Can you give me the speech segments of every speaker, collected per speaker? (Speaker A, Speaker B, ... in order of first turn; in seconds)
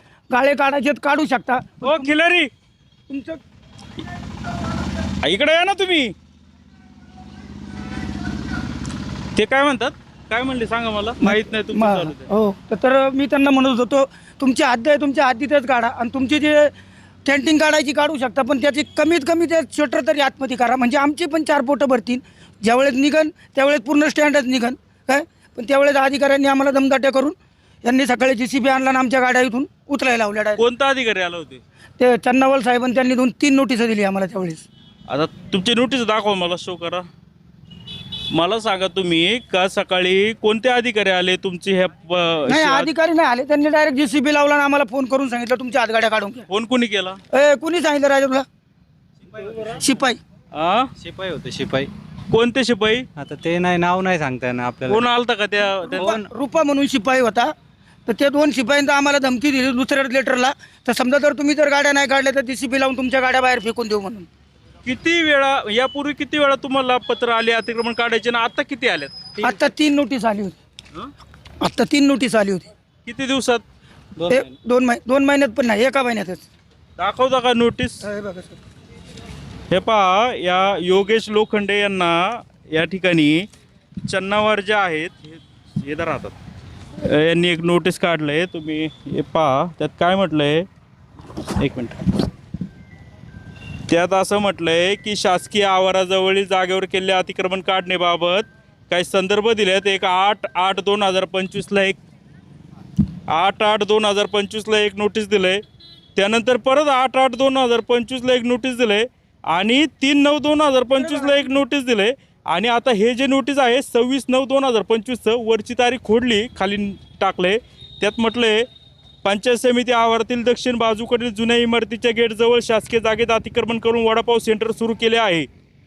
Speaker A: 0.3-2.1, 3.1-3.4, 11.2-16.7, 17.3-30.6, 32.0-34.6, 42.5-46.5, 47.3-48.5, 49.8-50.2, 55.9-57.5, 58.1-64.3, 69.4-70.6, 71.6-72.7, 74.3-76.5, 78.0-78.6, 111.0-111.4
Speaker B: 1.8-2.5, 5.2-6.1, 9.3-12.3, 30.6-31.6, 35.1-37.1, 38.3-42.9, 46.5-47.2, 50.5-50.9, 52.3-53.1, 54.9-56.2, 64.8-69.5, 73.0-73.6, 77.0-78.0, 79.7-83.5, 84.1-86.3, 87.0-90.7, 91.6-92.0, 93.9-102.0, 103.3-105.6, 106.2-118.7, 119.2-125.5
Speaker C: 51.0-51.9, 53.2-55.1, 74.2-74.5